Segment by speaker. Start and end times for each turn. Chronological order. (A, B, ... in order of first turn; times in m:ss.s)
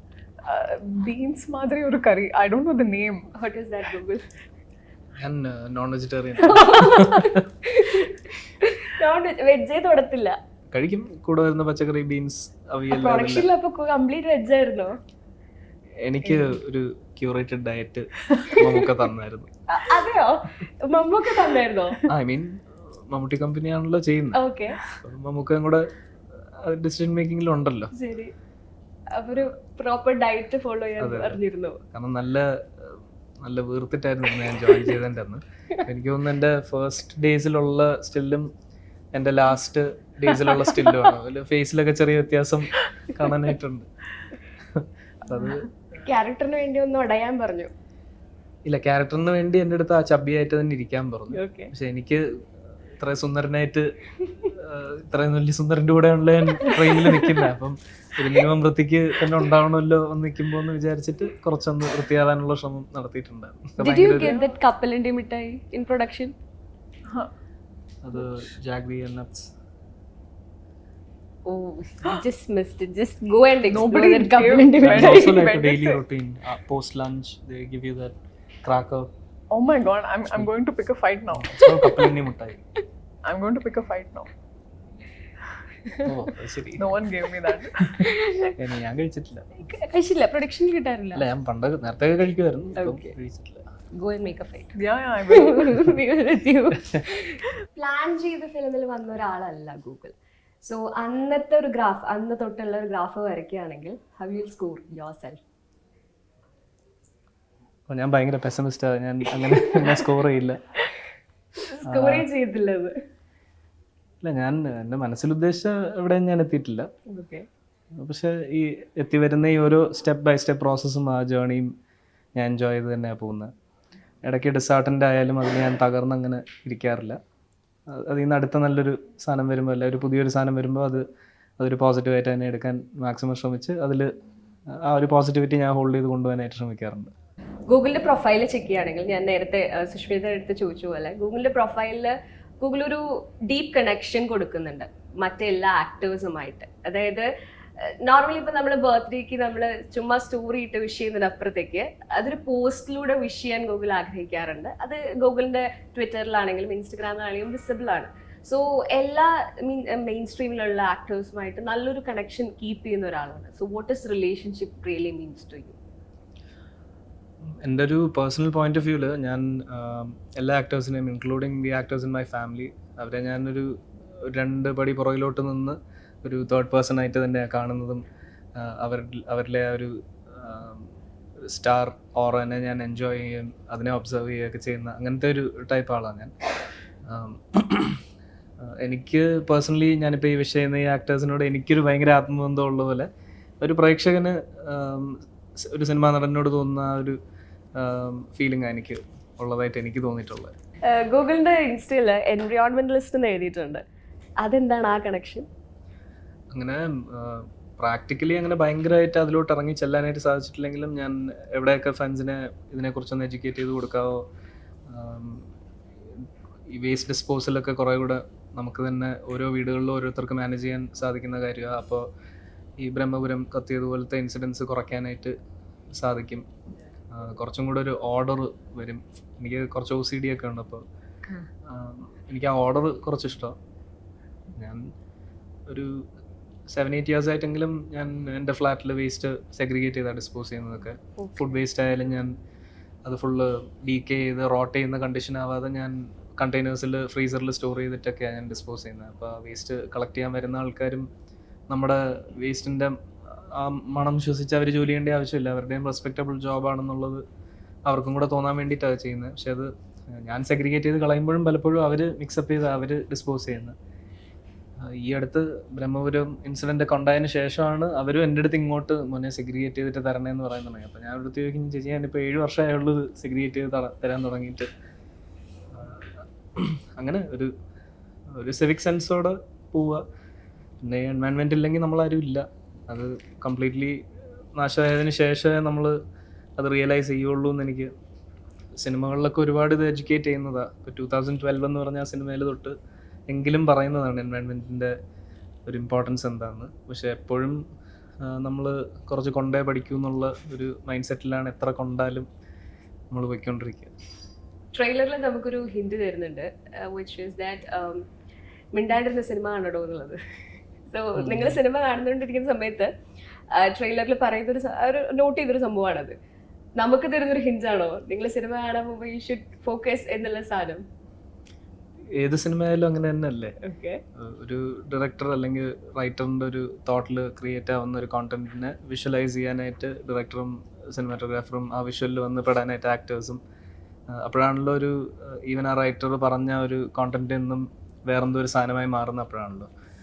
0:00.4-0:03.3 A
0:03.4-0:04.3 B
0:05.2-0:07.4 C
0:06.4-0:10.4 B
0:10.7-0:13.5 C
0:12.9-0:15.0 B
0:16.0-0:19.5 C
0:16.2-0:16.6 B
0:18.5-0:18.9 B
0:19.7-0:22.0 B
0:22.1-0:25.9 C
0:24.3-0:24.8 B
0:26.6-0:27.9 C
0:27.9-0:28.4 B
0:29.1-0:31.8 B
0:31.0-0:31.4 C
0:31.9-0:38.5 C
0:39.1-0:43.9 C
0:44.7-0:45.7 C
0:45.4-0:47.7 B
0:48.6-0:52.5 C
0:51.3-0:51.7 B
0:53.0-1:04.4 C
0:56.6-0:57.4 B
1:03.8-1:06.4 B
1:08.0-1:09.5 C
1:11.4-1:15.5 B
1:13.7-1:16.0 A
1:14.8-1:19.1 C
1:19.5-1:21.7 A
1:21.3-1:22.6 C
1:21.6-1:22.2 B
1:23.2-1:24.3 A
1:26.0-1:26.9 C
1:26.8-1:28.1 A
1:27.9-1:29.5 C
1:28.0-1:28.6 B
1:29.6-1:31.2 B
1:31.1-1:33.7 C
1:32.8-1:33.1 B
1:33.9-1:45.4 B
1:34.8-1:35.8 A
1:47.9-1:50.6 C
1:49.8-1:50.1 B
1:51.6-1:53.0 B
1:51.8-1:52.3 C
1:54.2-1:56.9 C
1:57.1-1:57.5 B
1:58.0-2:01.7 C
2:02.4-2:03.5 C
2:04.2-2:07.2 C
2:07.9-2:11.0 C
2:11.6-2:14.1 C
2:14.7-2:17.1 C
2:17.7-2:27.3 B
2:27.8-2:45.8 B
2:47.6-2:58.0 C
2:58.6-3:00.9 C
3:01.4-3:06.3 C
3:07.0-3:08.0 C
3:08.7-3:13.1 C
3:13.6-3:17.2 C
3:17.8-3:20.5 C
3:20.9-3:23.8 B
3:24.4-3:25.5 B
3:26.5-3:34.2 C
3:34.9-3:35.5 C
3:36.7-3:42.1 C
3:42.8-3:45.4 C
3:45.9-3:46.5 C
3:47.1-3:50.8 C
3:51.6-3:53.6 C
3:54.6-3:54.9 C
3:55.7-3:56.1 C
3:56.7-4:02.4 C
4:01.2-4:01.6 B
4:03.0-4:11.1 C
4:11.7-4:17.2 C
4:17.9-4:23.8 C
4:24.8-4:34.7 C
4:35.7-4:37.5 C
4:38.3-4:40.0 C
4:40.8-4:44.0 C
4:44.6-4:46.0 C
4:46.6-4:47.9 C
4:48.8-4:52.8 C
4:53.3-4:55.0 C
4:55.7-4:57.6 C
4:58.2-5:02.3 C
5:03.1-5:03.9 C
5:04.7-5:08.1 B
5:08.7-5:10.2 B
5:10.9-5:12.9 B
5:11.2-5:11.6 C
5:13.5-5:16.1 B
5:16.8-5:20.8 B
5:22.1-5:23.6 C
5:23.6-5:24.0 B
5:24.2-5:33.4 C
5:34.1-5:39.7 C